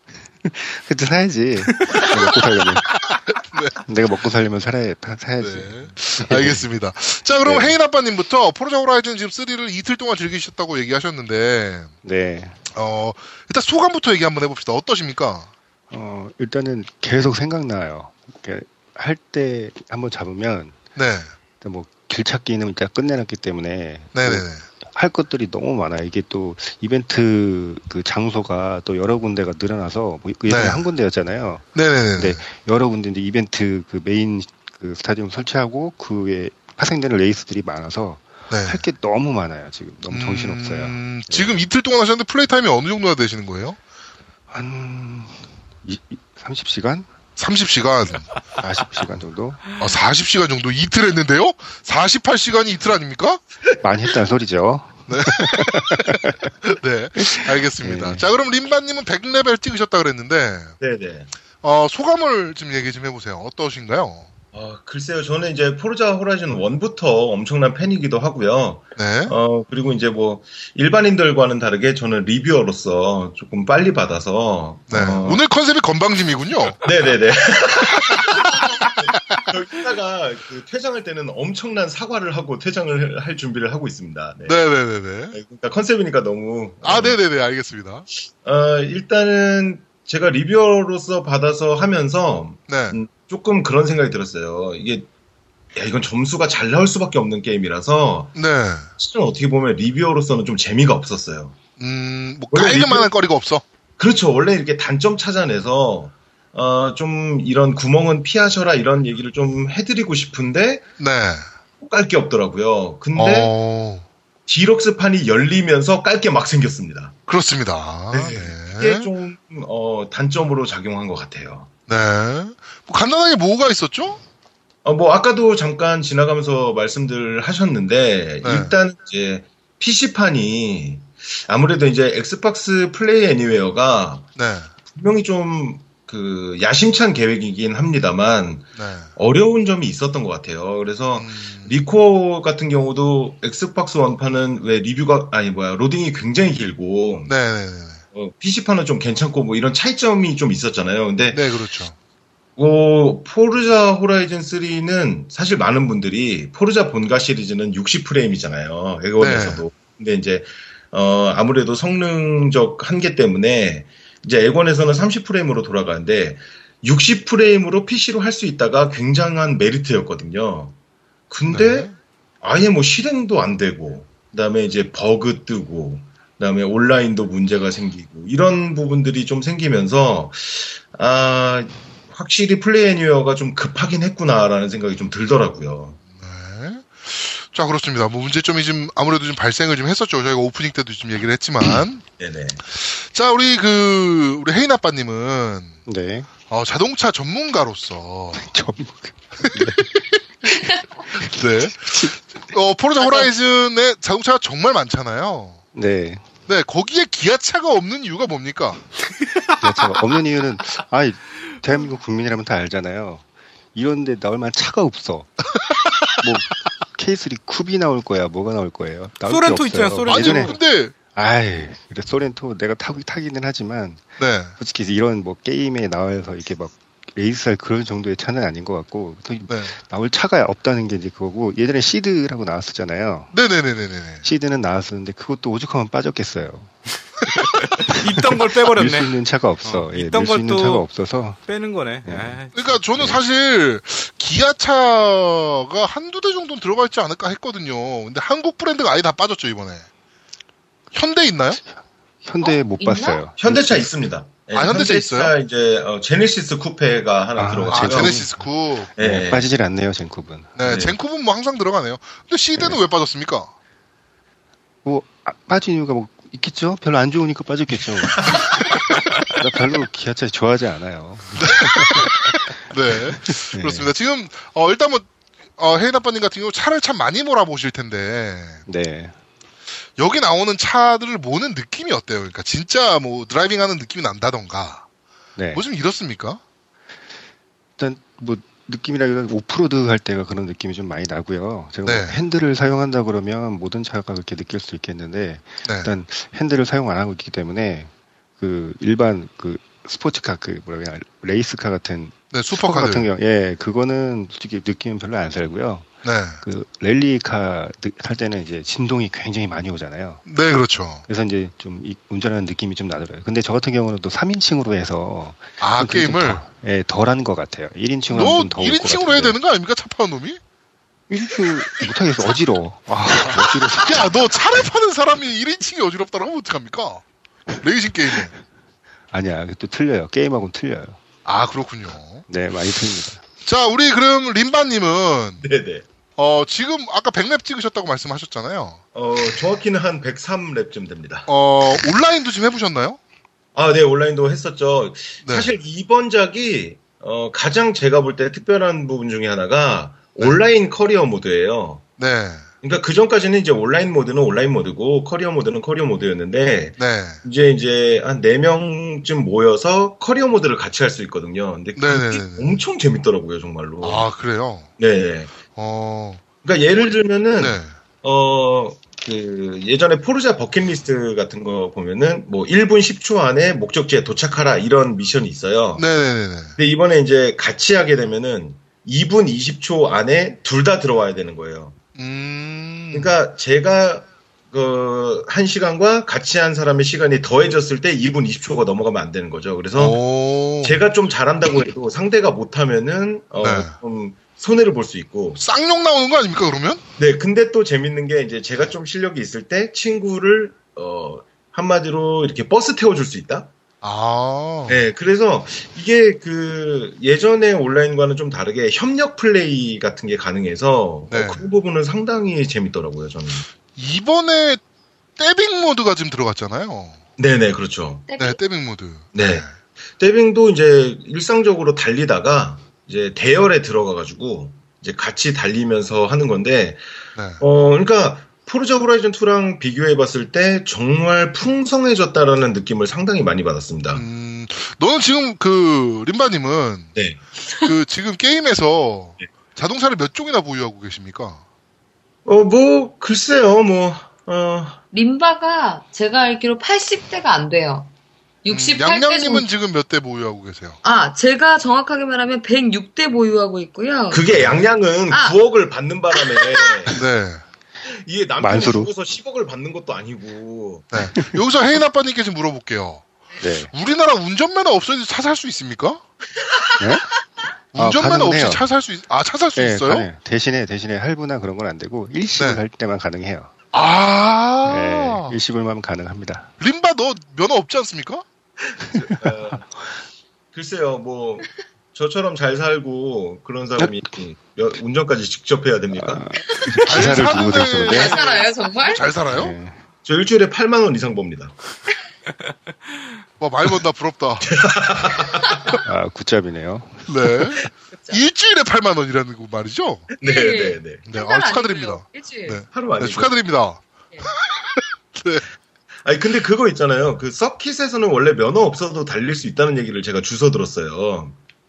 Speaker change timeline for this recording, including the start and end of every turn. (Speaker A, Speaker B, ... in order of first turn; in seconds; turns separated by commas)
Speaker A: 0.4-2.9, Speaker B: 1.7-2.4, Speaker C: 3.4-3.8, Speaker A: 3.9-6.6, Speaker C: 5.4-11.9, Speaker A: 7.4-7.8, Speaker A: 12.0-12.6, Speaker C: 12.7-15.5, Speaker A: 15.9-20.8, Speaker C: 21.0-21.3, Speaker A: 21.6-41.7, Speaker C: 24.1-24.6, Speaker C: 30.5-30.8, Speaker C: 31.8-32.4, Speaker C: 38.5-38.8, Speaker C: 40.1-43.8, Speaker A: 44.5-47.1, Speaker C: 47.4-48.3, Speaker A: 48.6-49.6, Speaker C: 49.8-53.4, Speaker A: 53.8-56.5, Speaker C: 55.1-60.8, Speaker A: 57.2-58.3, Speaker D: 60.8-61.3, Speaker C: 61.6-64.3, Speaker D: 64.5-75.4, Speaker C: 69.0-69.3, Speaker C: 74.9-76.9, Speaker D: 76.8-84.6, Speaker C: 84.5-85.4, Speaker D: 85.3-87.2, Speaker C: 86.8-88.1, Speaker D: 88.4-95.1, Speaker C: 92.7-93.0, Speaker D: 95.7-98.3, Speaker C: 98.3-98.9, Speaker D: 99.0-101.6, Speaker C: 101.8-103.6, Speaker D: 102.5-103.1, Speaker D: 104.0-110.9, Speaker C: 111.0-111.5, Speaker D: 111.8-113.5, Speaker C: 113.2-114.0, Speaker D: 114.5-117.2, Speaker C: 117.3-119.1, Speaker D: 118.1-121.7, Speaker C: 121.9-124.2, Speaker D: 124.8-134.3, Speaker C: 128.4-128.8, Speaker C: 134.4-134.7, Speaker D: 134.9-147.3, Speaker C: 138.8-139.1, Speaker C: 141.2-141.8, Speaker C: 147.3-148.0, Speaker D: 148.1-151.4, Speaker C: 151.3-152.0, Speaker D: 152.6-170.8, Speaker C: 159.2-159.7, Speaker D: 171.3-171.9, Speaker C: 171.5-171.9, Speaker D: 172.4-186.0, Speaker C: 186.2-192.0, Speaker D: 192.2-192.6, Speaker C: 192.7-195.8, Speaker A: 195.9-196.3, Speaker C: 196.5-198.5, Speaker A: 198.4-202.2, Speaker C: 199.4-199.9, Speaker C: 201.2-205.6, Speaker A: 205.8-206.2, Speaker C: 206.5-208.8, Speaker A: 209.6-215.5, Speaker A: 216.1-220.6, Speaker B: 219.3-220.6, Speaker C: 220.1-220.9, Speaker A: 221.1-233.3, Speaker C: 224.2-224.6, Speaker C: 229.5-229.8, Speaker C: 233.3-234.3, Speaker A: 234.2-236.7, Speaker B: 237.7-240.9, Speaker A: 237.9-241.4, Speaker B: 241.5-242.8, Speaker A: 242.1-242.4, Speaker C: 242.5-249.9, Speaker C: 250.9-251.6, Speaker A: 252.2-253.9, Speaker E: 252.4-253.3, Speaker D: 253.4-258.2, Speaker C: 254.5-255.3, Speaker A: 257.4-258.4, Speaker C: 257.7-258.9, Speaker D: 259.0-259.5, Speaker A: 259.0-260.6, Speaker C: 260.6-263.5, Speaker D: 260.6-261.0, Speaker A: 264.9-273.9, Speaker C: 271.4-278.6, Speaker A: 278.7-279.2, Speaker C: 280.0-284.9, Speaker A: 285.4-285.6, Speaker C: 285.5-286.4, Speaker A: 287.8-305.9, Speaker C: 291.9-292.2, Speaker C: 295.6-295.9, Speaker C: 302.3-303.1, Speaker C: 306.0-306.4, Speaker A: 306.4-310.2, Speaker C: 310.3-311.1, Speaker A: 311.1-319.4, Speaker C: 315.6-316.4, Speaker C: 318.1-320.4, Speaker A: 321.1-324.3, Speaker C: 323.2-327.0, Speaker C: 327.6-328.3, Speaker A: 329.1-331.0, Speaker C: 331.2-332.2, Speaker A: 332.3-333.2, Speaker C: 333.4-335.4, Speaker D: 335.4-335.9, Speaker C: 336.2-339.4, Speaker D: 338.9-341.3, Speaker C: 341.3-343.0, Speaker D: 343.6-351.9, Speaker C: 345.2-345.5, Speaker C: 352.0-352.5, Speaker D: 352.6-364.1, Speaker C: 356.8-357.2, Speaker C: 361.8-362.6, Speaker C: 363.8-364.7, Speaker D: 364.8-365.3, Speaker C: 365.5-366.2, Speaker D: 366.4-375.8, Speaker C: 366.8-367.7, Speaker C: 375.8-376.6, Speaker D: 376.6-381.8, Speaker C: 382.0-383.2, Speaker D: 382.9-390.0, Speaker C: 389.8-390.8, Speaker D: 390.6-395.4, Speaker C: 393.4-393.8, Speaker C: 395.4-396.8, Speaker D: 397.0-403.5, Speaker C: 403.8-404.8, Speaker D: 404.7-413.4, Speaker C: 411.1-411.5, Speaker C: 413.8-414.6, Speaker C: 415.2-417.0, Speaker D: 417.2-418.1, Speaker E: 418.1-418.4, Speaker C: 418.2-419.5, Speaker D: 419.1-419.4, Speaker D: 420.0-426.8, Speaker C: 427.2-427.4, Speaker D: 427.4-434.0, Speaker C: 433.9-437.0, Speaker D: 436.9-437.2, Speaker C: 437.6-441.4, Speaker D: 442.2-444.8, Speaker E: 444.9-447.9, Speaker E: 448.4-449.5, Speaker C: 448.5-450.8, Speaker E: 450.8-454.4, Speaker D: 454.1-457.0, Speaker E: 455.1-455.4, Speaker E: 456.4-456.9, Speaker C: 456.9-457.4, Speaker D: 458.1-460.9, Speaker A: 458.4-458.9, Speaker C: 460.9-463.1, Speaker A: 463.4-463.7, Speaker C: 463.7-466.0, Speaker A: 466.8-467.2, Speaker C: 467.7-470.1, Speaker A: 467.8-468.7, Speaker A: 469.6-473.5, Speaker C: 472.4-472.6, Speaker C: 473.7-475.4, Speaker A: 474.6-476.5, Speaker C: 476.6-478.2, Speaker D: 478.9-479.7, Speaker A: 479.0-479.6, Speaker D: 480.5-486.3, Speaker A: 483.8-484.1, Speaker A: 485.9-488.2, Speaker E: 486.5-486.9, Speaker C: 486.8-489.6, Speaker E: 487.9-489.0, Speaker A: 489.3-489.8, Speaker D: 490.1-491.5, Speaker C: 493.4-494.5, Speaker D: 494.4-495.8, Speaker A: 495.8-497.1, Speaker C: 497.1-500.1, Speaker E: 497.9-498.2, Speaker D: 500.2-501.1, Speaker E: 500.2-502.6, Speaker C: 501.0-505.4, Speaker D: 502.7-503.3, Speaker D: 506.0-511.4